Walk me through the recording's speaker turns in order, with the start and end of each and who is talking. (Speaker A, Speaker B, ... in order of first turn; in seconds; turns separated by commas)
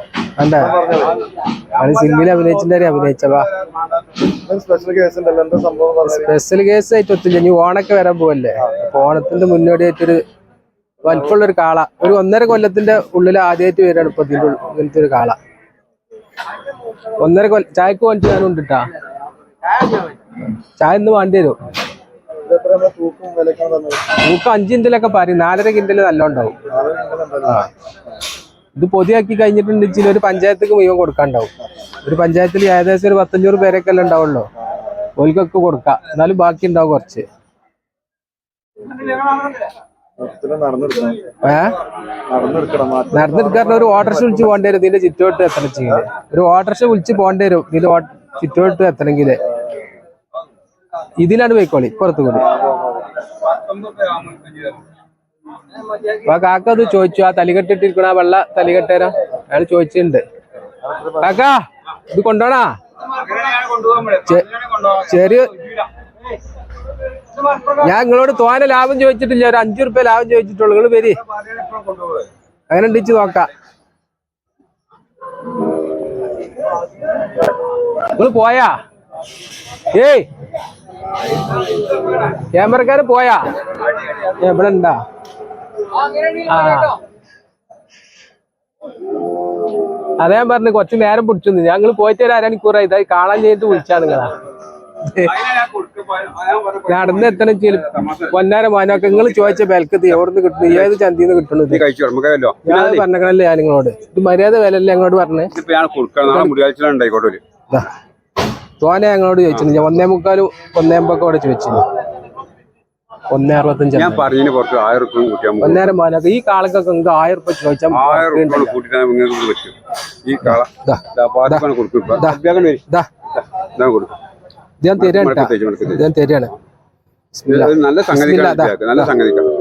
Speaker A: 0.4-0.8, Speaker B: 0.6-1.2, Speaker A: 1.7-3.5, Speaker B: 4.2-6.3, Speaker A: 6.0-10.2, Speaker A: 11.0-15.4, Speaker A: 17.2-18.9, Speaker A: 20.8-21.6, Speaker B: 22.5-24.1, Speaker A: 24.2-26.6, Speaker B: 26.7-27.7, Speaker A: 28.8-31.5, Speaker A: 32.0-34.5, Speaker A: 35.2-37.2, Speaker B: 40.2-41.3, Speaker A: 41.4-41.8, Speaker B: 42.3-44.6, Speaker A: 43.1-49.4, Speaker A: 51.2-52.5, Speaker B: 52.3-53.1, Speaker C: 53.5-54.8, Speaker A: 56.0-60.2, Speaker B: 60.8-61.4, Speaker A: 61.2-62.7, Speaker C: 63.3-64.9, Speaker A: 64.2-65.8, Speaker A: 67.5-71.2, Speaker C: 71.5-72.2, Speaker A: 72.7-73.5, Speaker A: 78.1-78.8, Speaker A: 79.9-80.3, Speaker A: 82.2-85.0, Speaker A: 86.1-87.0, Speaker A: 90.2-94.4, Speaker A: 95.1-95.4, Speaker C: 95.2-98.3, Speaker A: 96.9-101.8, Speaker C: 99.0-99.6, Speaker C: 101.7-103.0, Speaker A: 102.6-105.5, Speaker C: 105.5-107.4, Speaker A: 106.3-106.5, Speaker A: 108.8-111.8, Speaker A: 113.3-114.3, Speaker C: 113.9-115.9, Speaker A: 115.6-118.8, Speaker C: 117.9-122.8, Speaker A: 120.8-121.7, Speaker A: 122.2-123.1, Speaker C: 123.5-124.2, Speaker A: 124.8-126.5, Speaker C: 125.0-126.1, Speaker A: 127.3-129.1, Speaker C: 127.5-129.5